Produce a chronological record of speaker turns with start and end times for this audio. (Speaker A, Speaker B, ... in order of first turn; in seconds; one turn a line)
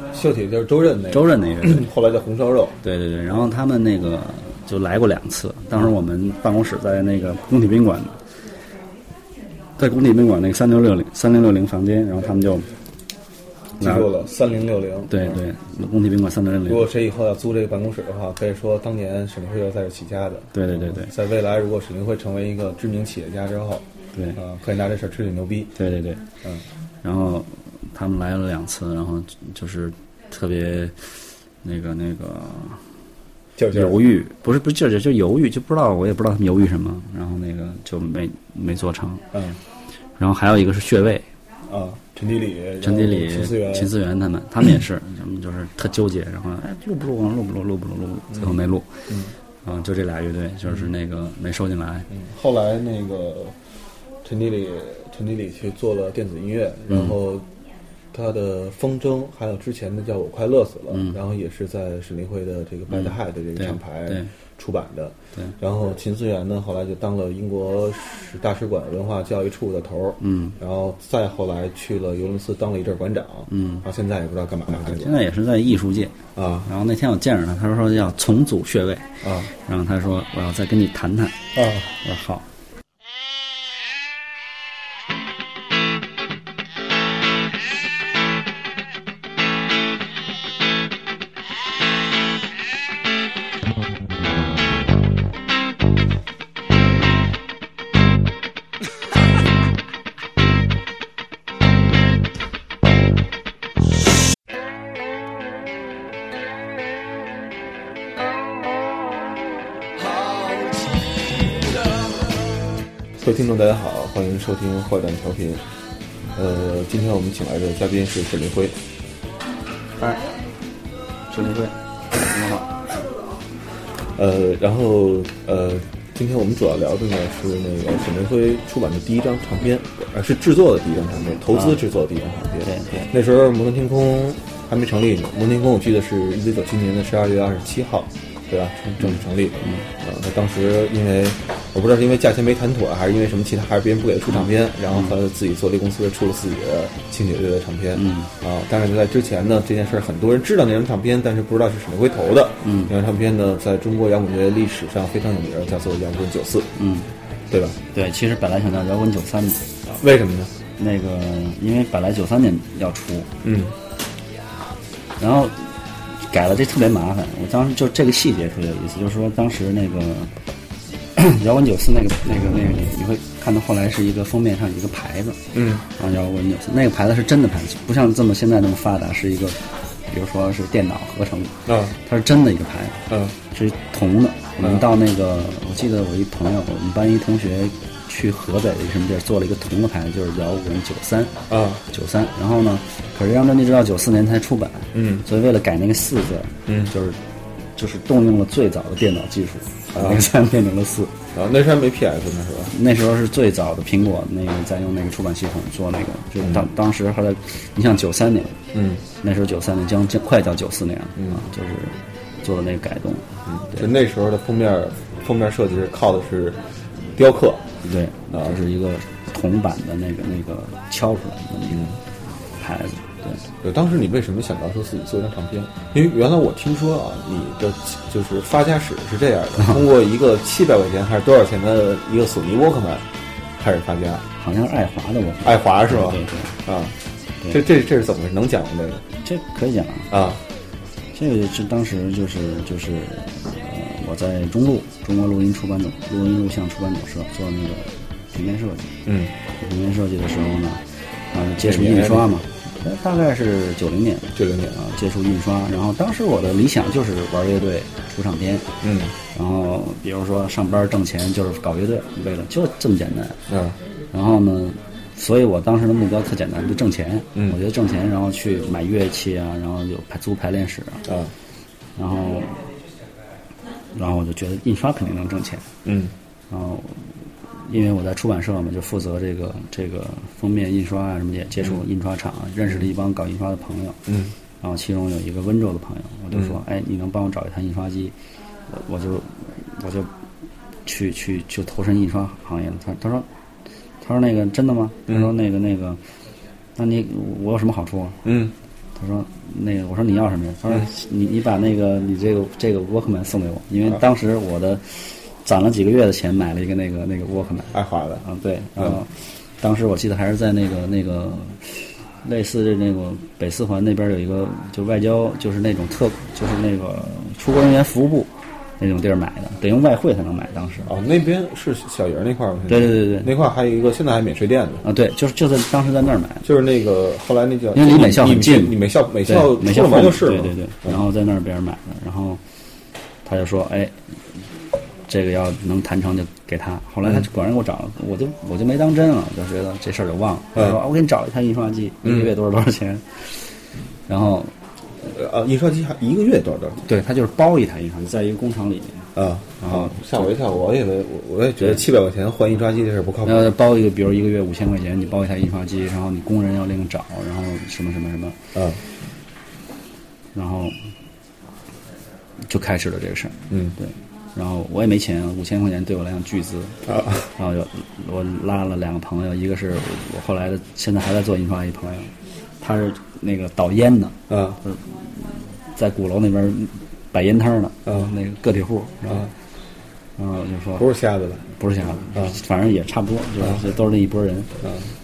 Speaker A: 0.1-2.8
Speaker B: 1.1-1.9
Speaker B: 2.8-8.2
Speaker B: 9.8-12.7
Speaker B: 13.8-14.1
Speaker A: 13.8-15.4
Speaker B: 15.1-16.9
Speaker A: 16.6-25.7
Speaker B: 20.5-21.1
Speaker B: 24.1-24.4
Speaker B: 25.7-26.2
Speaker B: 27.0-32.8
Speaker A: 33.5-34.0
Speaker B: 33.7-39.3
Speaker A: 39.3-39.6
Speaker B: 40.2-41.2
Speaker A: 41.7-43.9
Speaker B: 42.8-49.1
Speaker A: 49.1-49.3
Speaker B: 49.6-52.1
Speaker A: 52.1-53.5
Speaker A: 54.2-57.5
Speaker B: 56.9-57.1
Speaker A: 58.1-75.1
Speaker B: 60.9-61.2
Speaker B: 62.9-64.3
Speaker B: 70.2-70.6
Speaker B: 73.5-73.8
Speaker B: 74.8-81.4
Speaker A: 76.3-76.7
Speaker A: 79.2-79.5
Speaker A: 81.5-82.0
Speaker B: 82.0-82.4
Speaker A: 113.2-115.6
Speaker A: 116.3-118.8
Speaker B: 120.0-120.2
Speaker B: 121.3-122.8
Speaker A: 124.1-156.7
Speaker B: 131.5-131.8
Speaker B: 132.6-133.1
Speaker B: 139.0-139.9
Speaker B: 147.9-148.3
Speaker B: 152.6-152.9
Speaker B: 156.8-157.1
Speaker A: 157.5-157.8
Speaker B: 157.9-159.7
Speaker A: 159.9-160.5
Speaker B: 160.8-163.3
Speaker A: 163.4-163.7
Speaker B: 165.2-170.3
Speaker B: 171.1-175.4
Speaker A: 175.5-175.8
Speaker B: 175.9-191.4
Speaker A: 181.7-181.9
Speaker A: 183.1-183.3
Speaker A: 191.5-191.8
Speaker B: 191.9-197.2
Speaker A: 194.9-195.2
Speaker A: 196.7-196.9
Speaker B: 197.8-201.2
Speaker A: 199.9-200.2
Speaker A: 201.3-202.7
Speaker B: 202.7-208.6
Speaker A: 208.7-209.0
Speaker B: 209.2-213.9
Speaker A: 211.2-211.4
Speaker A: 213.5-216.6
Speaker A: 217.1-217.7
Speaker B: 217.8-221.9
Speaker A: 218.3-218.6
Speaker A: 221.7-222.0
Speaker B: 222.6-223.4
Speaker A: 223.6-234.2
Speaker B: 229.6-229.8
Speaker B: 234.4-236.6
Speaker A: 235.4-239.0
Speaker B: 239.2-240.1
Speaker A: 240.1-240.4
Speaker B: 241.1-249.0
Speaker A: 249.1-249.3
Speaker B: 249.6-258.7
Speaker A: 251.6-252.4
Speaker A: 254.3-254.8
Speaker A: 258.8-259.1
Speaker B: 259.3-263.4
Speaker A: 263.5-263.8
Speaker B: 264.1-271.1
Speaker A: 271.1-271.3
Speaker B: 271.9-272.7
Speaker B: 273.9-275.7
Speaker A: 275.8-276.1
Speaker B: 276.5-284.1
Speaker A: 284.1-284.3
Speaker B: 284.6-288.1
Speaker A: 286.3-286.6
Speaker B: 288.7-290.1
Speaker B: 290.8-293.3
Speaker B: 294.0-296.0
Speaker B: 296.8-298.2
Speaker A: 298.2-298.5
Speaker B: 298.9-320.9
Speaker A: 307.7-308.2
Speaker A: 320.8-324.8
Speaker B: 322.7-323.3
Speaker B: 324.8-326.5
Speaker A: 326.4-331.0
Speaker B: 327.7-332.4
Speaker B: 333.2-334.1
Speaker B: 335.1-344.5
Speaker A: 340.5-340.8
Speaker A: 342.0-342.3
Speaker A: 345.0-346.8
Speaker B: 346.8-350.3
Speaker A: 349.1-353.5
Speaker B: 353.2-358.4
Speaker A: 358.5-358.8
Speaker B: 360.3-360.8
Speaker B: 362.5-379.3
Speaker A: 363.5-363.8
Speaker A: 366.9-367.3
Speaker A: 374.3-374.6
Speaker B: 380.2-380.9
Speaker A: 380.8-381.5
Speaker B: 381.5-384.5
Speaker A: 384.6-384.9